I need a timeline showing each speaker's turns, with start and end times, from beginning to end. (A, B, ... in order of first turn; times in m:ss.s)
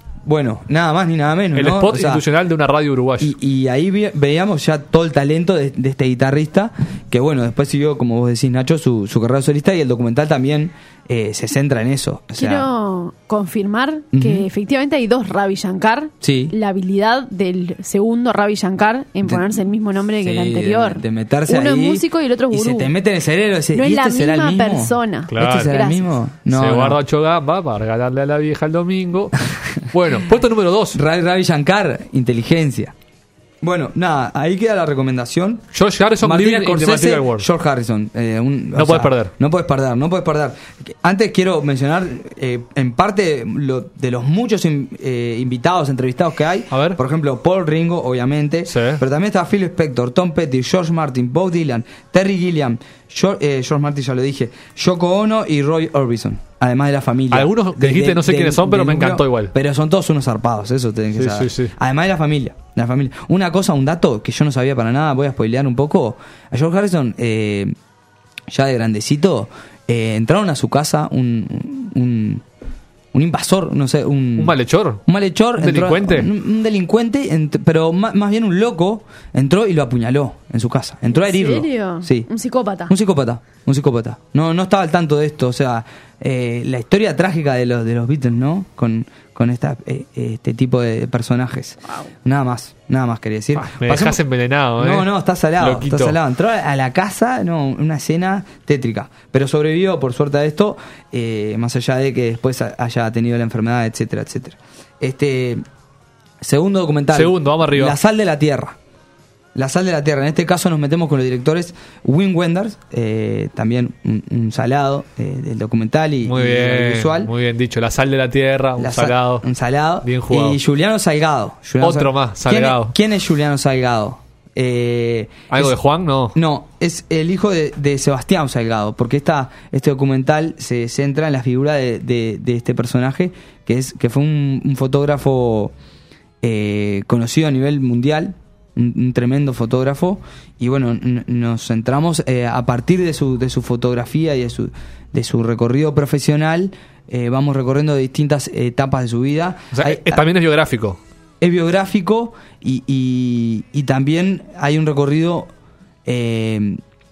0:00.2-0:02.2 A
0:01.5-0:03.3 B
0:03.2-0:12.7 A
0:12.4-0:22.9 C
0:14.1-0:14.5 A
0:16.2-0:16.5 A
0:19.2-0:19.6 A
0:20.2-0:27.0 A
0:23.7-0:26.2 C
0:25.3-0:25.8 B
0:26.5-0:31.0 B
0:30.9-0:32.9 A
0:33.6-0:35.6 A
0:35.7-0:37.5 B
0:36.2-1:07.7 A
0:38.8-0:39.3 B
0:46.7-0:47.0 B
0:48.7-0:49.0 B
0:57.3-0:59.5 B
1:01.1-1:01.7 B
1:08.5-1:12.4 A
1:13.1-1:14.5 A
1:14.4-1:15.0 B
1:15.0-1:22.3 A
1:15.6-1:16.3 B
1:21.1-1:22.9 C
1:22.9-1:34.2 A
1:33.6-1:35.1 B
1:34.8-1:45.6 A
1:35.6-1:36.2 B
1:46.4-1:48.8 A
1:47.1-1:48.0 B
1:49.5-1:57.3 A
1:56.2-1:59.4 B
1:58.8-2:05.7 A
2:00.0-2:00.6 B
2:01.8-2:02.9 B
2:05.5-2:06.3 B
2:06.3-2:15.7 A
2:16.4-2:30.2 A
2:29.7-2:31.0 B
2:31.4-2:35.5 A
2:36.0-2:36.8 A